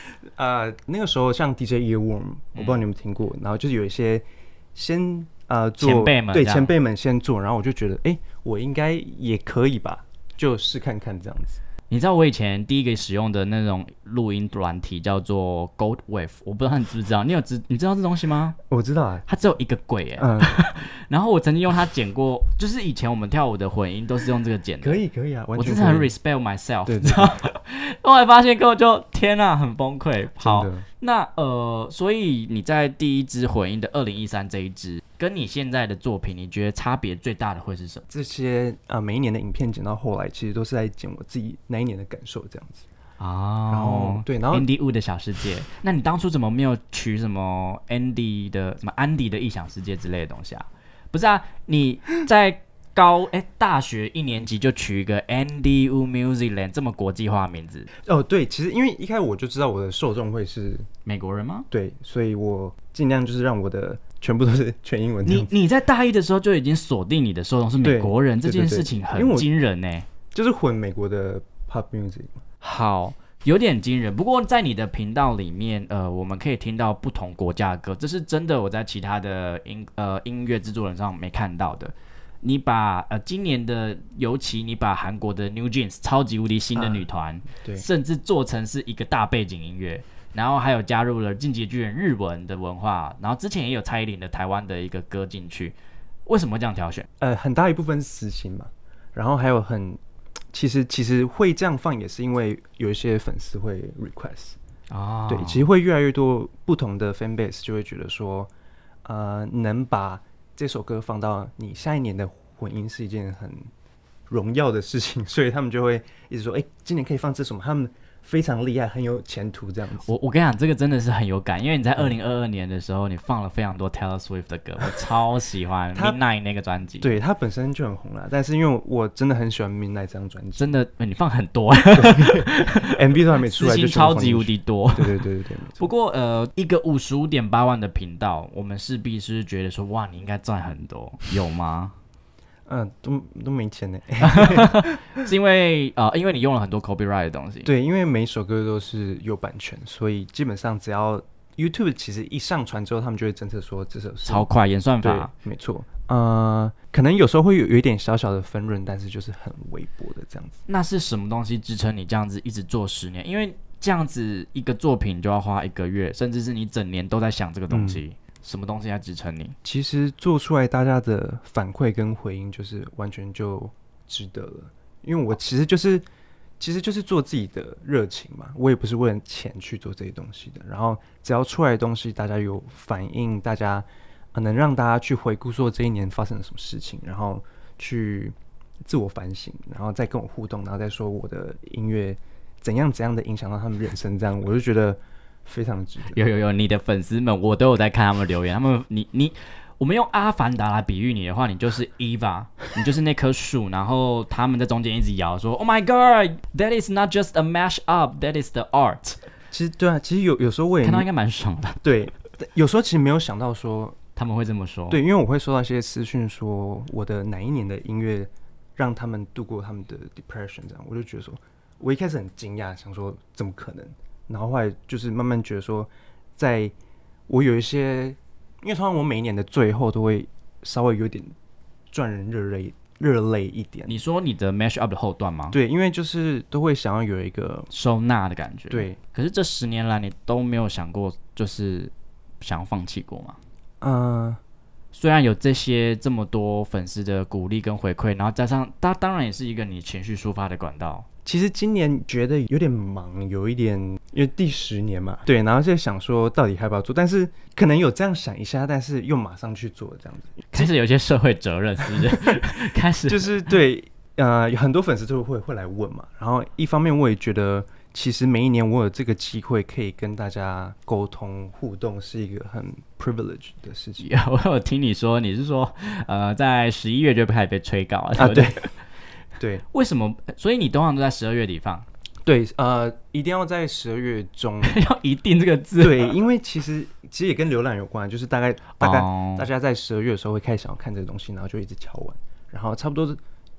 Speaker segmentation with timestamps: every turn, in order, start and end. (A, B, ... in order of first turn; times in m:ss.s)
0:00.4-0:11.6 A
0:02.6-0:02.8 B
0:05.8-0:06.7 B
0:11.9-0:18.6 B
0:18.7-0:19.2 A
0:19.3-0:25.0 B
0:20.2-0:20.8 A
0:24.8-0:26.1 A
0:25.6-0:38.0 B
0:26.9-0:27.4 A
0:30.4-0:30.9 A
0:38.1-0:42.9 A
0:43.2-0:57.9 B
0:43.7-0:44.7 A
0:58.0-1:00.9 A
1:01.1-1:01.7 B
1:01.7-1:05.5 A
1:05.3-1:10.1 B
1:07.8-1:09.5 A
1:10.3-1:12.4 A
1:12.6-1:35.8 B
1:26.8-1:27.8 A
1:36.3-1:37.1 B
1:37.2-1:40.0 A
1:40.5-1:44.6 A
1:44.9-1:45.6 B
1:45.3-1:48.5 A
1:49.0-1:53.7 A
1:54.3-2:00.1 A
2:00.0-2:07.1 B
2:05.9-2:06.2 A
2:07.0-2:10.7 A
2:10.6-2:15.2 B
2:12.0-2:15.9 A
2:15.8-2:21.9 B
2:22.7-2:25.0 A
2:24.2-2:27.7 B
2:27.6-2:34.5 A
2:34.3-2:35.3 B
2:35.0-2:40.6 A
2:40.7-2:49.6 B
2:47.7-2:48.0 A
2:49.6-2:56.1 A
2:56.6-3:16.2 A
3:16.1-3:29.2 B
3:29.5-3:31.1 A
3:30.8-3:31.8 B
3:31.8-3:34.0 A
3:34.2-3:35.0 B
3:34.9-3:46.7 A
3:47.3-3:51.3 A
3:51.9-3:54.0 A
3:53.9-3:55.6 B
3:55.5-3:57.7 A
3:57.7-4:03.4 B
3:58.7-3:59.0 A
4:03.8-4:04.4 A
4:04.9-4:11.1 B
4:11.2-4:20.7 A
4:20.5-4:23.4 B
4:21.9-4:22.4 A
4:23.1-4:34.1 A
4:34.0-4:38.7 B
4:38.2-4:38.6 A
4:39.4-4:39.6 A
4:39.7-4:41.9 B
4:42.2-4:44.8 A
4:44.6-4:46.2 B
4:45.8-4:53.2 A
4:48.8-4:49.5 B